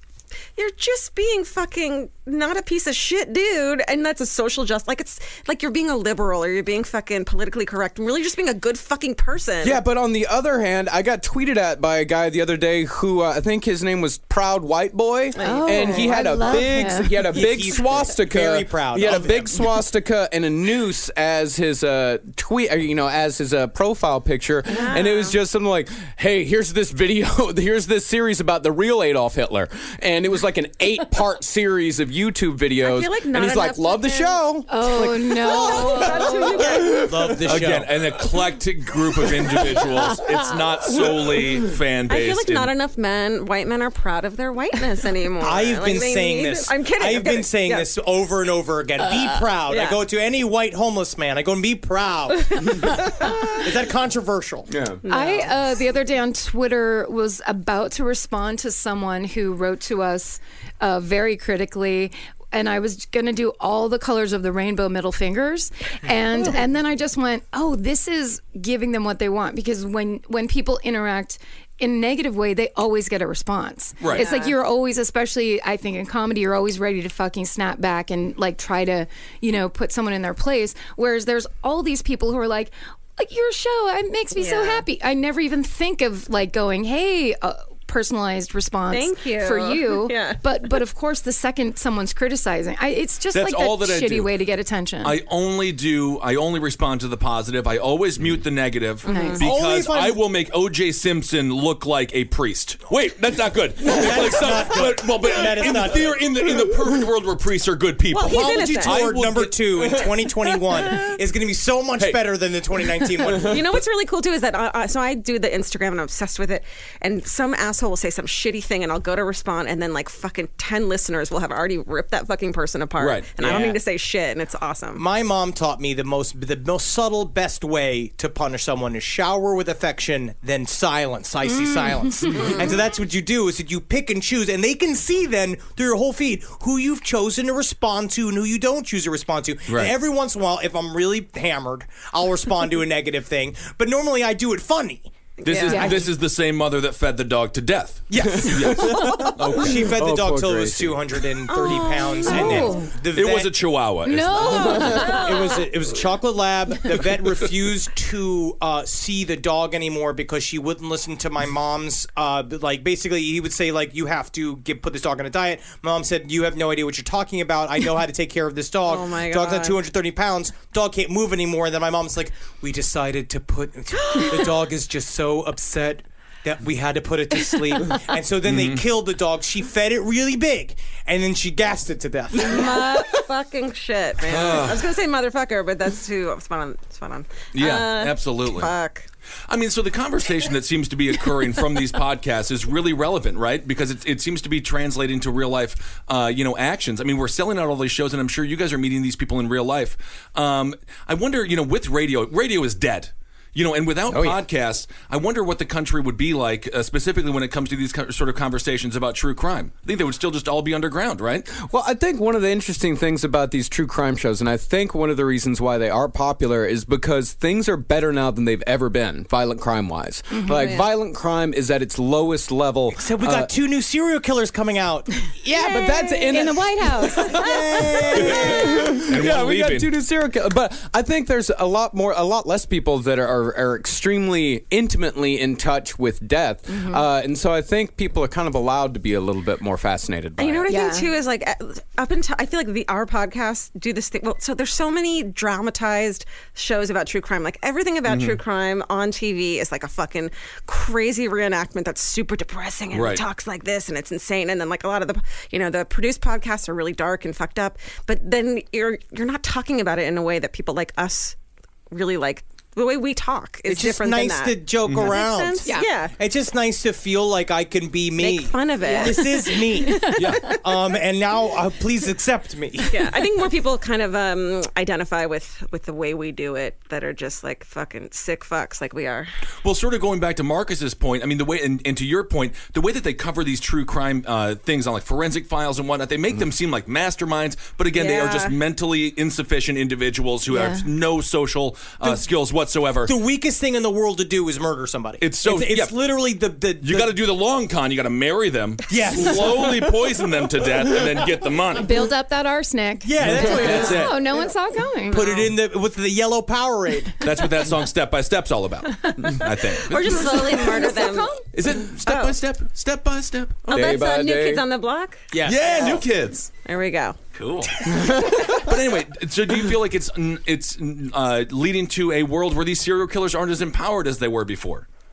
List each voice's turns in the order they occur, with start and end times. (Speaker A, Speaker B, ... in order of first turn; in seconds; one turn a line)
Speaker A: 0.6-9.8
Speaker B: 9.6-37.3
Speaker A: 15.4-16.1
Speaker C: 15.4-17.1
Speaker D: 17.3-19.7
Speaker A: 24.7-25.4
Speaker A: 32.8-34.4
Speaker C: 34.7-36.5
Speaker A: 35.4-37.1
Speaker D: 36.9-38.0
Speaker E: 37.4-42.7
Speaker A: 42.1-47.9
Speaker D: 45.4-54.7
Speaker A: 49.7-50.0
Speaker B: 54.7-55.0
Speaker A: 55.1-55.5
Speaker C: 55.1-95.2
Speaker E: 74.0-74.3
Speaker A: 74.1-74.6
Speaker A: 84.4-84.8
Speaker A: 88.9-90.4
Speaker E: 93.3-94.3
Speaker E: 95.0-110.2
Speaker A: 99.0-99.4
Speaker C: 99.1-99.4
Speaker D: 99.4-100.3
Speaker D: 103.8-106.6
Speaker A: 108.1-109.0
Speaker D: 108.2-113.7
Speaker E: 112.0-112.3
Speaker E: 113.3-113.6
Speaker A: 113.5-125.0
Speaker E: 123.0-123.7
Speaker D: 123.4-123.7
Speaker D: 125.0-145.1
Speaker C: 131.5-132.5
Speaker E: 139.7-139.9
Speaker E: 145.4-149.9
Speaker A: 145.4-146.0
Speaker C: 145.7-146.0
Speaker D: 145.7-146.1
Speaker D: 148.1-153.8
Speaker B: 148.2-151.3
Speaker A: 151.5-152.6
Speaker C: 152.2-152.9
Speaker E: 152.4-155.0
Speaker C: 154.0-155.5
Speaker A: 154.7-155.6
Speaker D: 155.0-183.1
Speaker A: 168.8-169.8
Speaker A: 174.0-174.6
Speaker E: 178.4-178.8
Speaker A: 182.4-189.1
Speaker E: 184.3-184.9
Speaker E: 187.5-188.7
Speaker E: 189.5-211.5
Speaker B: 204.1-204.4
Speaker B: 211.5-223.5
Speaker C: 220.3-220.8
Speaker A: 220.5-220.9
Speaker D: 222.9-225.1
Speaker B: 225.4-240.7
Speaker A: 225.6-226.3
Speaker C: 226.3-227.5
Speaker D: 227.3-229.0
Speaker E: 228.3-229.9
Speaker C: 236.7-237.0
Speaker A: 240.4-261.4
Speaker C: 240.7-241.1
Speaker E: 248.1-248.4
Speaker E: 252.9-253.2
Speaker A: 261.9-266.1
Speaker D: 263.7-273.2
Speaker E: 264.9-265.2
Speaker A: 268.2-269.5
Speaker C: 269.1-270.6
Speaker E: 270.1-270.6
Speaker A: 272.9-279.3
Speaker E: 279.6-293.2
Speaker A: 287.9-288.6
Speaker C: 290.5-290.9
Speaker D: 293.1-297.3
Speaker E: 295.2-296.0
Speaker E: 296.8-301.9
Speaker D: 298.9-300.0
Speaker C: 301.8-305.2
Speaker D: 303.1-304.5
Speaker E: 303.2-304.2
Speaker A: 305.1-305.5
Speaker D: 305.1-307.3
Speaker E: 307.2-311.0
Speaker A: 309.9-311.4
Speaker E: 311.5-313.6
Speaker A: 312.1-312.4
Speaker A: 313.7-315.2
Speaker B: 313.7-314.6
Speaker D: 315.3-316.1
Speaker E: 315.4-316.5
Speaker A: 316.6-317.2
Speaker E: 317.4-324.9
Speaker B: 317.9-318.5